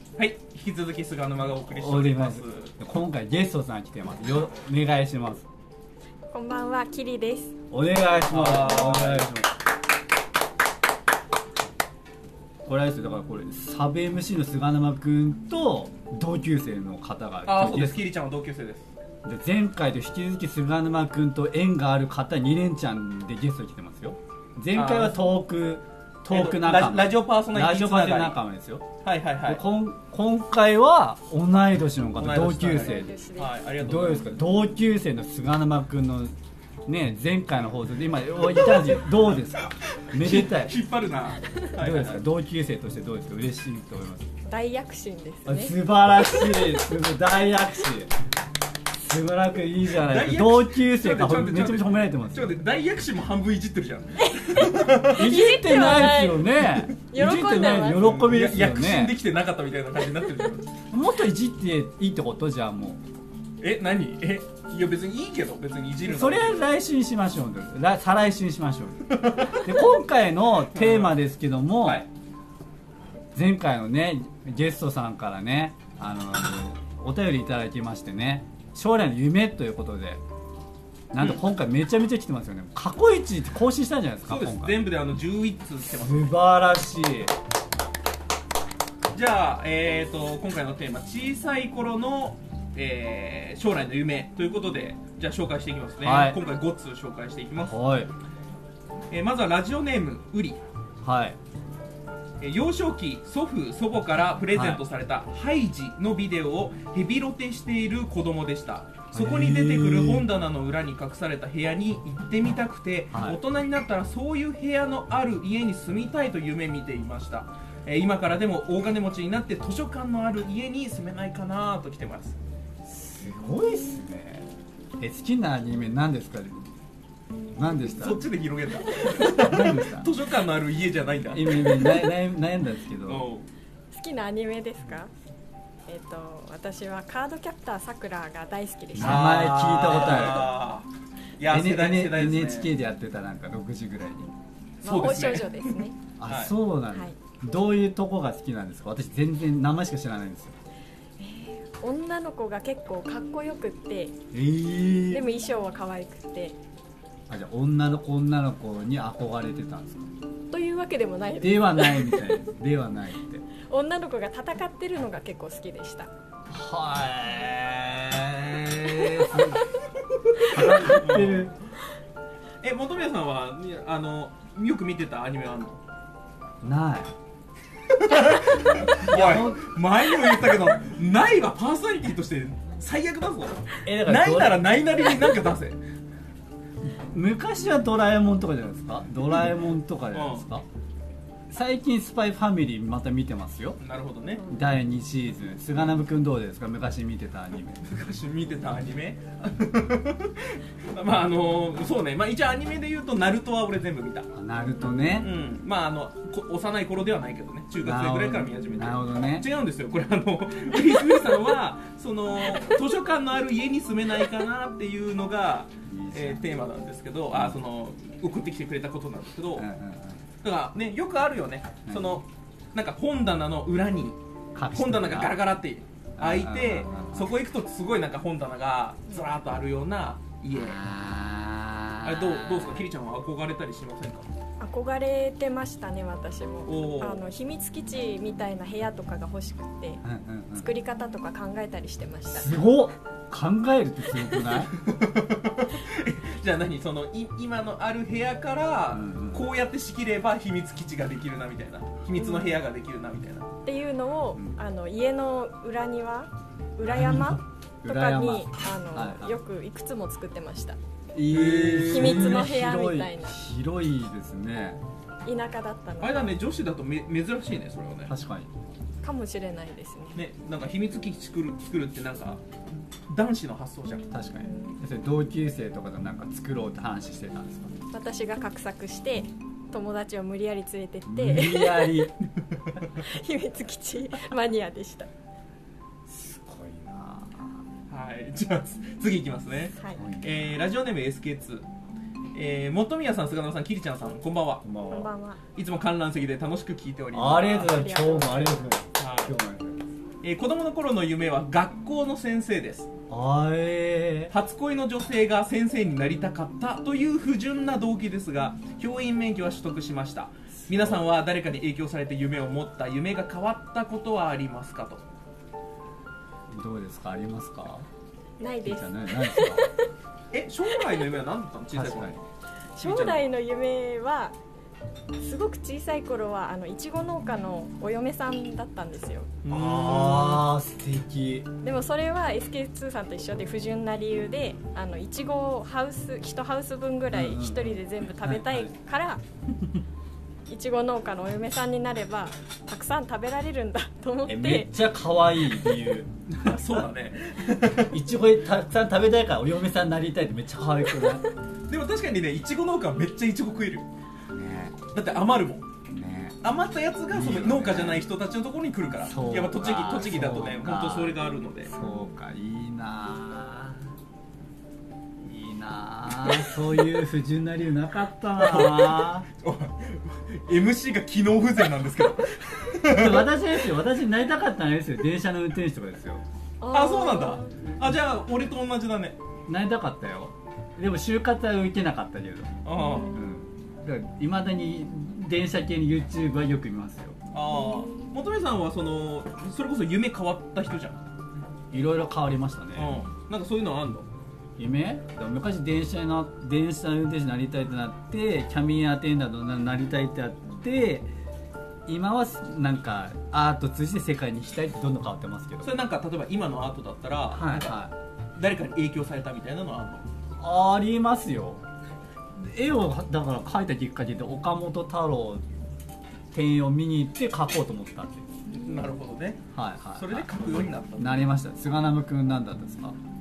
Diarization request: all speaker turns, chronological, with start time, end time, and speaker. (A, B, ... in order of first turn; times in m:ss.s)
0:00.2-0:02.7 A
0:01.7-0:05.4 B
0:06.3-0:07.5 C
0:07.7-0:09.5 B
0:08.3-0:09.3 A
0:12.6-0:18.1 B
0:17.4-0:18.9 A
0:19.2-0:28.9 B
0:24.7-0:25.3 A
0:26.3-0:28.4 A
0:29.0-0:29.6 A
0:29.4-0:33.1 B
0:32.2-0:34.3 A
0:32.7-0:33.6 C
0:33.8-0:36.3 B
0:36.8-0:40.7 B
0:39.9-0:42.2 A
0:41.8-0:44.3 B
0:44.4-0:45.8 C
0:45.4-0:48.1 B
0:48.9-0:52.6 B
0:50.0-0:55.3 A
0:54.2-0:56.6 C
0:55.1-0:59.2 B
0:57.1-0:58.2 C
0:57.7-1:00.7 A
1:00.9-1:03.0 B
1:03.6-1:06.7 A
1:06.0-1:12.0 B
1:09.1-1:09.6 A
1:10.7-1:11.2 A
1:13.3-1:20.2 B
1:21.1-1:24.8 B
1:24.3-1:26.3 A
1:25.9-1:27.3 B
1:29.1-1:37.7 A
1:36.0-1:36.4 B
1:37.7-1:38.1 B
1:39.1-1:40.6 A
1:41.0-1:41.4 B
1:42.4-2:02.4 A
1:44.5-1:44.8 B
1:49.1-1:50.3 B
1:53.1-1:53.4 B
2:02.8-2:04.5 B
2:05.0-2:06.7 B
2:07.5-2:08.2 B
2:08.0-2:12.1 A
2:09.1-2:10.1 B
2:11.3-2:13.3 B
2:13.1-2:13.4 A
2:13.9-2:15.1 C
2:15.9-2:19.4 C
2:18.9-2:20.6 B
2:19.0-2:20.9 A
2:21.4-2:22.7 A
2:21.5-2:24.3 B
2:24.8-2:25.9 C
2:24.8-2:26.6 A
2:26.2-2:30.6 B
2:26.9-2:27.1 C
2:31.2-2:34.2 C
2:34.3-2:35.2 B
2:35.1-2:36.6 C
2:37.3-2:40.1 B
2:40.5-2:42.3 C
2:41.4-2:43.4 B
2:43.7-2:46.1 C
2:46.5-2:49.7 B
2:50.3-2:51.5 A
2:50.4-2:51.5 B
2:52.6-2:55.8 A
2:56.6-2:57.1 B
2:57.9-3:05.8 A
2:58.8-2:59.7 B
3:03.8-3:04.7 B
3:06.8-3:10.6 B
3:10.1-3:10.4 A
3:11.5-3:13.8 B
3:13.8-3:14.4 A
3:14.5-3:17.8 B
3:17.8-3:24.3 A
3:24.3-3:25.3 B
3:25.2-3:39.7 A
3:27.8-3:29.5 B
3:35.9-3:36.4 B
3:39.6-3:40.2 B
3:40.4-3:44.2 A
3:41.9-3:42.2 B
3:44.5-3:45.3 B
3:44.7-3:50.8 A
3:46.2-3:47.3 B
3:50.5-3:52.8 B
3:52.0-3:54.3 A
3:54.6-4:00.0 C
3:56.6-3:57.2 A
4:00.0-4:00.7 B
4:00.5-4:02.6 C
4:02.3-4:04.7 B
4:04.5-4:13.5 A
4:08.9-4:09.5 B
4:12.2-4:12.6 C
4:13.6-4:20.8 C
4:16.8-4:19.4 B
4:21.1-4:24.8 B
4:21.3-4:22.5 A
4:21.8-4:23.4 C
4:25.2-4:26.3 C
4:26.0-4:28.1 A
4:28.1-4:28.5 B
4:29.0-4:30.2 C
4:30.1-4:32.4 A
4:33.1-4:34.0 A
4:34.1-4:37.8 B
4:34.4-4:34.7 C
4:37.9-4:42.1 C
4:41.0-4:42.1 B
4:42.9-4:45.1 C
4:46.1-4:47.6 B
4:47.9-4:51.6 A
4:49.7-4:50.0 C
4:49.9-4:50.6 B
4:52.3-4:54.6 A
4:54.6-4:55.1 B
4:54.9-4:55.4 C
4:55.5-4:57.8 A
4:57.1-4:59.8 B
4:57.4-4:58.6 C
4:59.0-4:59.3 A
5:00.2-5:02.9 A
5:03.1-5:04.3 B
5:04.3-5:15.0 A
5:10.5-5:11.0 B
5:16.5-5:17.9 B
5:18.4-5:19.8 C
5:18.6-5:19.7 B
5:20.3-5:22.2 A
5:21.7-5:22.2 B
5:22.8-5:24.4 C
5:22.8-5:23.2 A
5:25.2-5:29.3 C
5:29.4-5:30.5 A
5:29.5-5:31.5 B
5:31.6-5:39.2 C
5:37.1-5:38.7 B
5:40.5-5:44.7 C
5:44.2-5:46.9 B
5:46.4-5:48.0 A
5:47.9-5:51.2 B
5:51.7-5:53.9 A
5:54.3-5:54.8 B
5:54.9-5:55.7 A
5:55.9-5:56.4 B
5:56.4-6:01.7 A
5:57.1-5:58.0 B
5:59.0-6:03.9 B
6:05.2-6:09.2 B
6:08.4-6:13.4 A
6:12.8-6:16.2 B
6:16.6-6:17.6 C
6:16.7-6:19.2 A
6:19.5-6:22.5 B
6:22.6-6:23.2 A
6:22.7-6:23.2 C
6:23.1-6:27.2 B
6:27.3-6:31.0 A
6:27.5-6:28.1 C
6:31.7-6:33.0 B
6:32.8-6:34.1 A
6:34.6-6:41.1 B
6:41.9-6:45.8 B
6:45.6-6:47.7 A
6:47.3-6:47.9 B
6:48.4-6:50.0 A
6:50.4-6:51.6 B
6:52.4-6:55.4 B
6:56.3-6:58.2 B
6:58.5-6:59.4 A
6:59.5-7:03.0 B
7:00.0-7:01.1 A